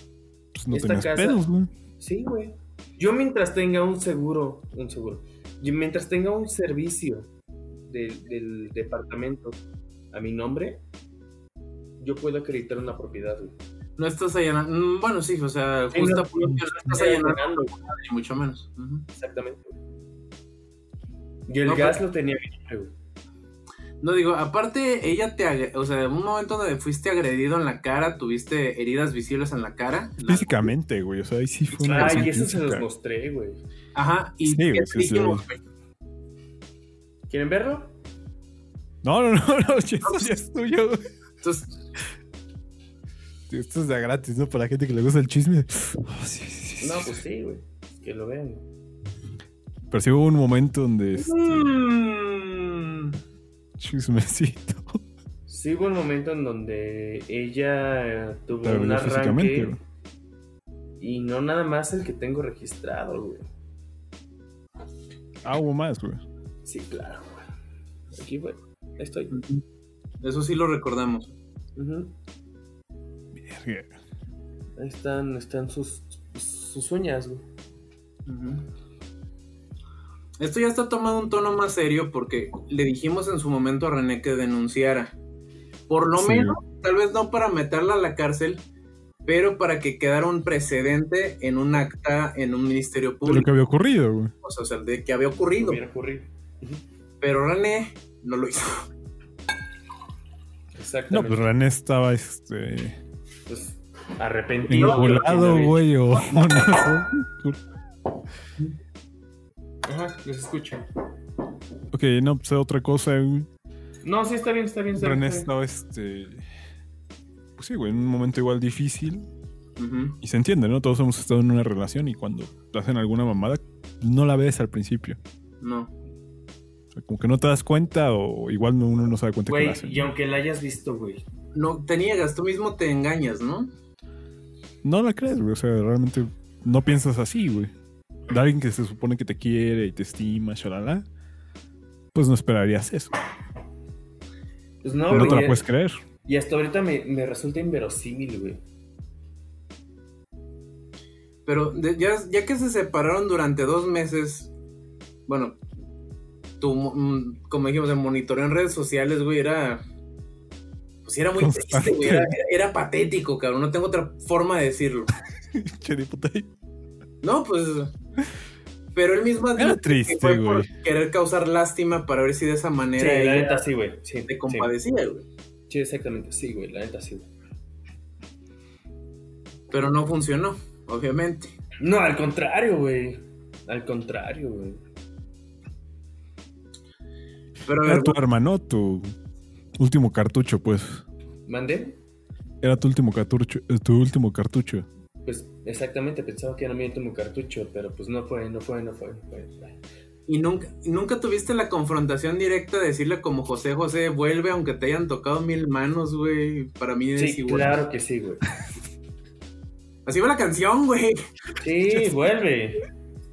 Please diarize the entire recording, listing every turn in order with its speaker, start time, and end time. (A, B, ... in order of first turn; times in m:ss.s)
0:00.5-0:01.7 A
0:00.7-0:01.4 B
0:02.0-0:07.3 B
0:07.8-0:09.6 B
0:10.1-0:10.8 B
0:12.0-0:13.6 B
0:14.0-0:19.1 C
0:15.9-0:17.7 B
0:19.2-0:19.8 B
0:21.5-0:22.9 B
0:21.7-0:22.0 C
0:24.0-0:30.7 C
0:30.2-0:32.9 A
0:31.8-0:33.6 B
0:31.9-0:32.3 C
0:34.0-0:35.6 C
0:34.4-0:35.4 A
0:37.3-0:37.9 B
0:39.0-0:41.1 A
0:40.0-0:40.3 C
0:41.4-0:41.8 C
0:43.5-0:47.2 A
0:46.8-0:48.6 B
0:49.9-0:51.7 A
0:51.2-0:52.7 C
0:53.8-0:55.0 A
0:55.5-0:59.7 B
0:58.6-0:59.8 A
1:01.0-1:03.5 B
1:05.4-1:06.2 A
1:06.6-1:07.4 B
1:08.1-1:09.4 B
1:09.3-1:09.6 C
1:10.2-1:11.3 C
1:11.8-1:12.1 B
1:13.3-1:13.9 A
1:14.8-1:17.4 B
1:18.3-1:18.6 C
1:20.4-1:25.1 C
1:25.9-1:28.6 C
1:26.2-1:26.6 A
1:29.2-1:33.5 C
1:33.2-1:34.3 A
1:34.4-1:35.8 C
1:35.6-1:36.8 B
1:37.2-1:38.9 C
1:40.8-1:41.4 B
1:41.1-1:43.0 A
1:43.5-1:45.8 B
1:44.7-1:47.6 A
1:49.9-1:50.8 B
1:51.9-1:53.5 A
1:54.0-1:55.5 B
1:55.0-1:56.4 A
1:57.6-1:59.3 A
1:59.8-2:00.2 C
2:00.2-2:05.2 A
2:05.6-2:05.9 C
2:06.9-2:10.1 A
2:09.5-2:11.2 B
2:11.5-2:13.7 C
2:14.8-2:17.7 A
2:18.3-2:21.0 A
2:22.1-2:23.1 A
2:24.8-2:25.6 B
2:25.1-2:26.0 A
2:26.3-2:28.6 B
2:31.5-2:34.5 C
2:35.3-2:35.6 C
2:36.6-2:39.8 C
2:41.0-2:45.1 C
2:41.4-2:42.4 A
2:45.5-2:46.5 A
2:47.2-2:47.9 C
2:49.0-2:53.7 C
2:49.6-2:50.7 A
2:53.0-2:54.7 B
2:54.3-2:55.2 C
2:55.7-2:57.3 B
2:59.7-3:01.6 C
3:01.8-3:04.8 B
3:07.7-3:08.2 C
3:07.8-3:09.1 A
3:09.8-3:11.0 A
3:11.5-3:12.0 B
3:12.6-3:14.9 A
3:15.2-3:19.8 B
3:20.3-3:27.8 C
3:27.2-3:28.4 B
3:30.1-3:31.2 C
3:31.6-3:32.8 B